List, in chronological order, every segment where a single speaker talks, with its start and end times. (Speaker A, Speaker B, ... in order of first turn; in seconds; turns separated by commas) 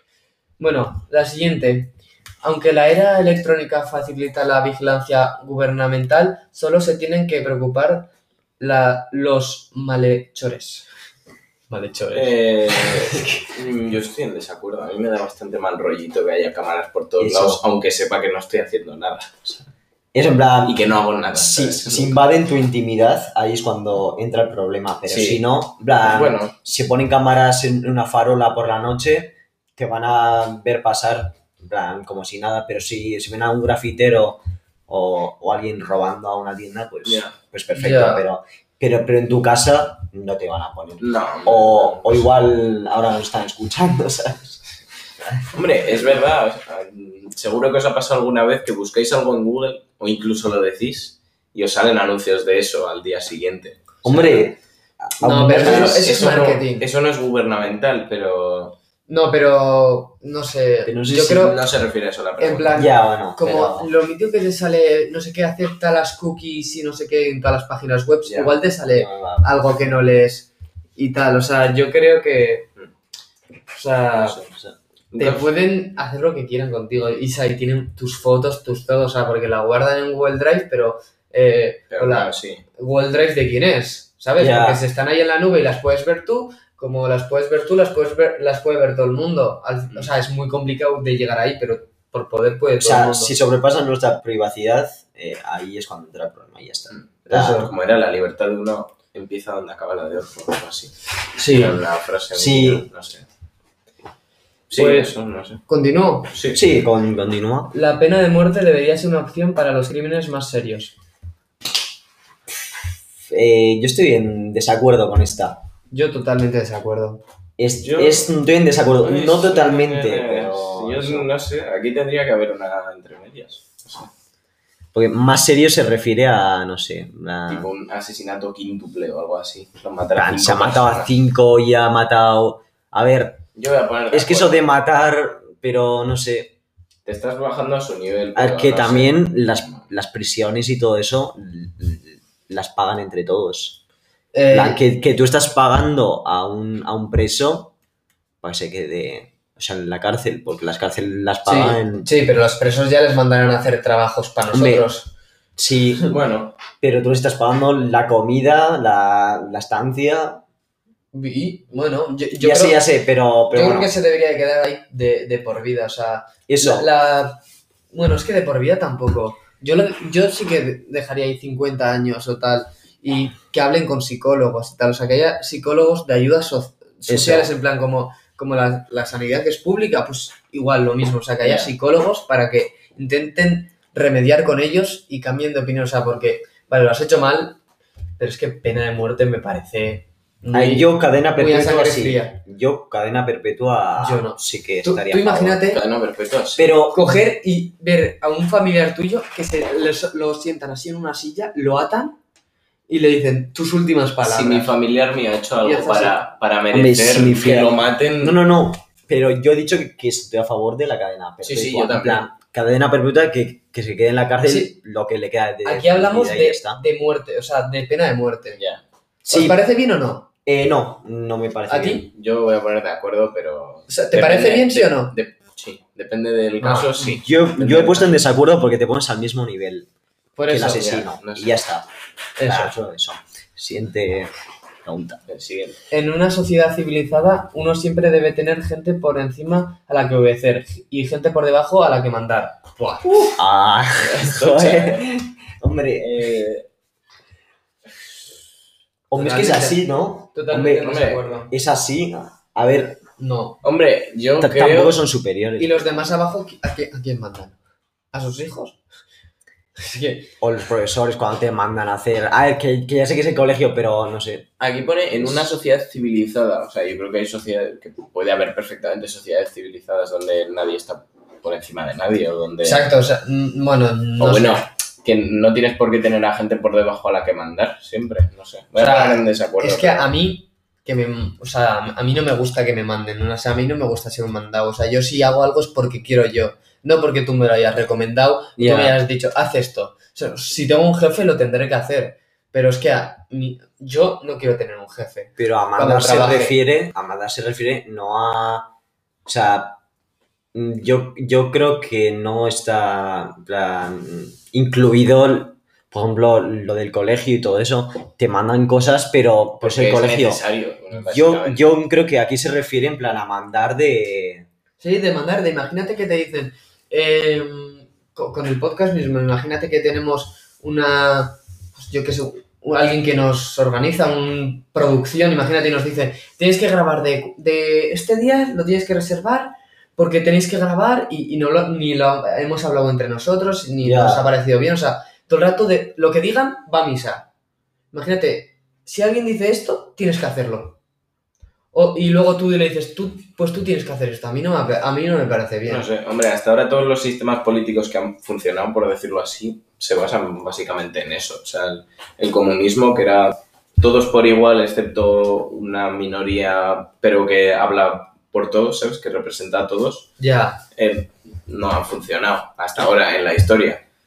Speaker A: 0.6-10.9, Speaker A: 11.7-13.2, Speaker B: 12.1-19.5, Speaker C: 17.2-17.6, Speaker C: 20.1-44.6, Speaker B: 20.6-22.2, Speaker B: 25.1-25.4, Speaker B: 26.0-26.5, Speaker B: 37.0-37.4, Speaker A: 37.7-38.2, Speaker B: 41.0-42.3, Speaker B: 45.5-54.5, Speaker C: 54.0-56.1, Speaker A: 55.2-56.9, Speaker B: 55.6-58.8, Speaker A: 59.1-61.6, Speaker C: 60.9-61.5, Speaker B: 61.3-62.8, Speaker A: 62.4-72.7, Speaker C: 62.7-63.9, Speaker B: 68.3-68.5, Speaker C: 68.9-69.7, Speaker A: 73.7-74.4, Speaker B: 74.1-74.5, Speaker B: 75.1-75.5, Speaker A: 75.2-93.3, Speaker B: 81.9-82.6, Speaker C: 84.4-84.8, Speaker C: 92.8-97.7, Speaker B: 96.9-101.0, Speaker A: 97.3-97.7, Speaker A: 101.3-101.8, Speaker B: 101.5-103.3, Speaker C: 102.3-102.9, Speaker B: 104.7-105.6, Speaker A: 104.8-105.1, Speaker A: 105.7-106.3, Speaker B: 106.3-106.6, Speaker C: 106.5-107.8, Speaker A: 107.7-111.0, Speaker C: 113.2-115.6, Speaker A: 115.9-117.2, Speaker C: 117.6-121.3, Speaker B: 117.8-118.3, Speaker B: 119.0-124.1, Speaker C: 124.9-127.7, Speaker B: 127.5-131.1, Speaker C: 130.2-133.4, Speaker B: 133.6-134.6, Speaker C: 134.1-136.6, Speaker B: 137.1-139.8, Speaker C: 138.4-143.8, Speaker A: 144.3-144.8, Speaker C: 144.5-147.7, Speaker C: 148.4-152.1, Speaker A: 151.5-155.1, Speaker C: 154.5-154.9, Speaker C: 155.6-160.4, Speaker B: 156.1-156.6, Speaker A: 161.1-162.8, Speaker C: 162.4-163.9, Speaker A: 163.5-167.4, Speaker C: 166.5-166.9, Speaker A: 167.9-187.6, Speaker C: 177.1-177.5, Speaker A: 188.2-192.4, Speaker C: 190.5-195.6, Speaker A: 194.0-195.8, Speaker B: 195.7-196.7, Speaker C: 196.6-197.0, Speaker A: 196.9-202.2, Speaker A: 202.9-204.7, Speaker B: 204.2-208.4, Speaker A: 205.6-206.2, Speaker C: 206.7-216.8, Speaker B: 211.4-212.2, Speaker A: 214.5-214.7, Speaker A: 215.6-218.6, Speaker B: 218.5-218.8, Speaker C: 219.2-219.6, Speaker A: 219.3-220.3, Speaker C: 220.5-222.1, Speaker A: 221.7-222.1, Speaker B: 222.1-228.3, Speaker A: 223.9-225.2, Speaker A: 226.6-227.0, Speaker C: 227.0-229.9, Speaker A: 230.4-230.9, Speaker C: 230.5-231.9, Speaker B: 230.7-231.5, Speaker A: 232.4-232.8, Speaker C: 232.4-234.3, Speaker C: 234.8-235.2, Speaker B: 235.3-235.8, Speaker A: 235.9-243.4, Speaker C: 243.2-246.4, Speaker B: 244.0-245.1, Speaker B: 246.0-246.7, Speaker C: 249.1-251.0, Speaker A: 249.1-251.5, Speaker B: 250.8-251.3, Speaker C: 251.5-253.0, Speaker A: 253.2-253.6, Speaker B: 253.6-255.0, Speaker C: 254.4-256.1, Speaker A: 255.6-257.6, Speaker A: 258.1-258.8, Speaker A: 259.8-260.3, Speaker C: 260.4-264.5, Speaker B: 264.6-272.9, Speaker A: 272.6-274.7, Speaker B: 274.2-280.1, Speaker A: 278.8-296.6, Speaker C: 288.6-288.9, Speaker C: 295.4-298.7, Speaker C: 299.3-299.8, Speaker C: 300.5-310.4, Speaker B: 309.6-311.7, Speaker C: 310.9-314.5, Speaker A: 314.8-337.3, Speaker C: 333.8-334.3, Speaker A: 337.9-340.8, Speaker A: 341.7-345.9, Speaker B: 345.7-360.1, Speaker A: 360.2-360.6, Speaker B: 360.8-363.8